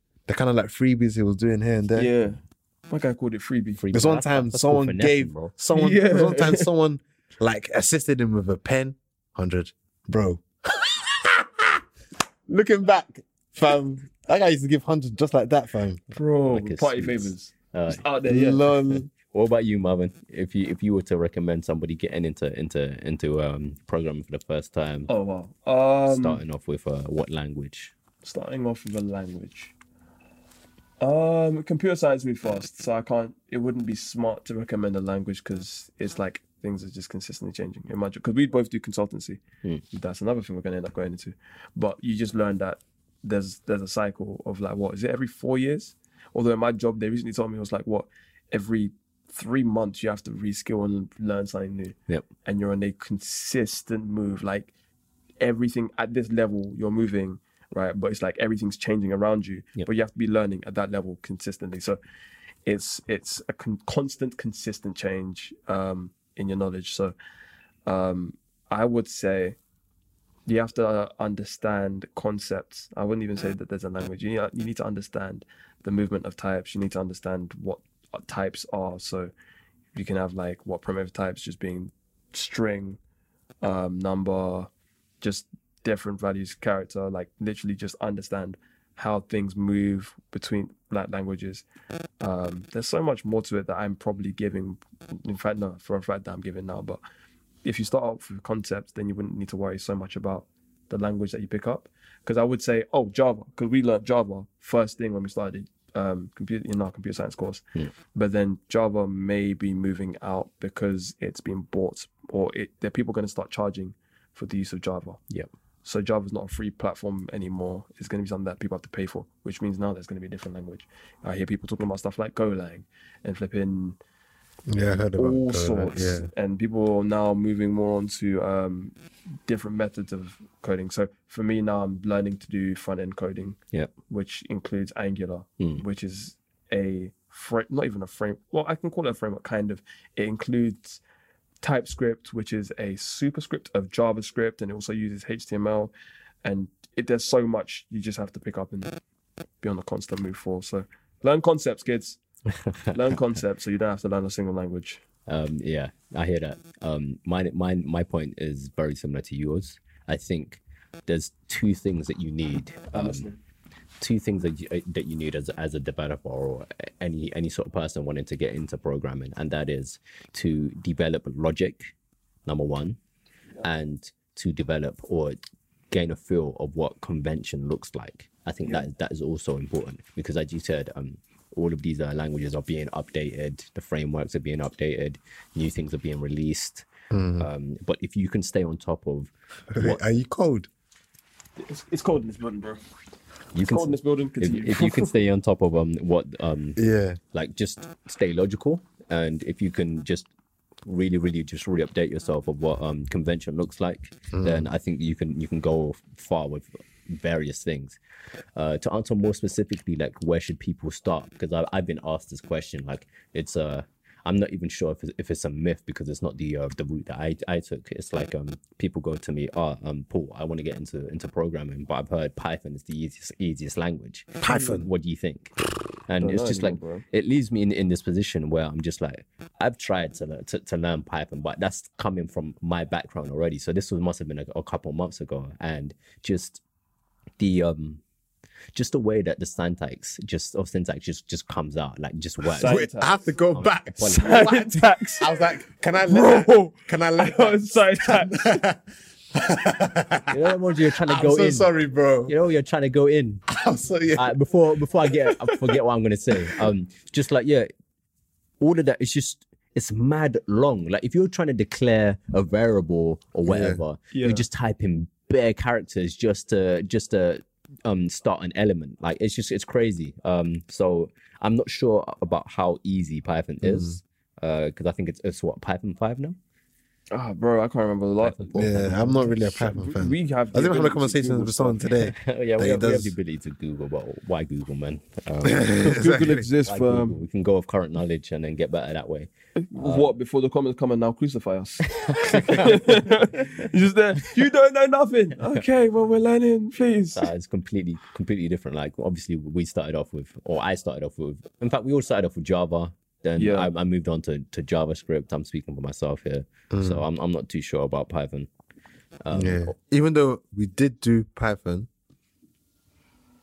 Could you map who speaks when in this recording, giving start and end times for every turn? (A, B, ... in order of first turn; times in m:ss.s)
0:00.3-0:02.1 A
0:02.0-0:03.8 B
0:03.8-0:05.6 C
0:03.9-0:11.7 A
0:05.7-0:06.7 B
0:12.5-0:16.0 A
0:16.1-0:18.7 B
0:16.5-0:18.0 C
0:18.3-0:19.1 A
0:18.9-0:25.1 C
0:25.1-0:26.4 B
0:26.1-0:28.0 C
0:28.2-0:29.7 B
0:31.0-0:39.4 B
0:39.9-0:54.7 B
0:55.4-1:02.0 B
1:02.7-1:07.2 B
1:07.9-1:09.6 B
1:10.5-1:19.3 B
1:20.0-1:23.0 B
1:23.6-1:24.7 B
1:25.2-1:31.6 B
1:32.2-1:37.0 B
1:37.6-1:55.2 B
1:55.8-2:04.0 B
2:04.7-2:06.3 A
2:04.9-2:08.9 B
2:09.5-2:13.6 B
2:14.1-2:21.0 B
2:21.6-2:25.9 B
2:26.4-2:29.0 B
2:29.6-2:32.2 B
2:32.6-2:33.2 C
2:32.9-2:35.0 B
2:35.3-2:43.3 C
2:42.9-2:43.4 B
2:44.0-2:51.9 C
2:52.5-2:53.0 C
2:53.6-2:55.4 C
2:55.9-3:10.0 C
3:07.1-3:07.5 A
3:09.7-3:10.7 A
3:11.6-3:12.8 B
3:13.5-3:16.8 C
3:13.6-3:15.2 B
3:16.8-3:17.2 A
3:17.3-3:20.3 C
3:20.9-3:28.0 C
3:24.3-3:24.7 A
3:28.6-3:45.5 C
3:44.4-3:44.9 A
3:44.5-3:44.8 B
3:46.1-3:56.6 C
3:46.2-3:47.0 B
3:57.4-3:58.0 C
3:58.7-4:02.8 C
4:02.5-4:03.3 B
4:02.6-4:10.4 A
4:03.5-4:04.5 C
4:04.0-4:08.6 B
4:10.3-4:11.7 C
4:11.0-4:12.4 A
4:12.3-4:13.4 C
4:13.5-4:14.3 A
4:14.2-4:17.7 C
4:15.1-4:15.8 B
4:18.6-4:36.4 C
4:23.4-4:23.8 A
4:24.1-4:24.5 B
4:33.6-4:34.0 A
4:37.1-4:42.0 B
4:38.2-4:39.2 C
4:38.6-4:43.2 A
4:42.0-4:45.9 C
4:45.4-4:46.5 A
4:45.7-4:47.2 B
4:46.6-4:50.2 C
4:49.6-4:57.3 B
4:51.9-4:53.6 C
4:57.2-5:08.5 C
5:03.4-5:03.7 B
5:06.7-5:07.0 A
5:09.2-5:09.7 C
5:09.3-5:11.9 A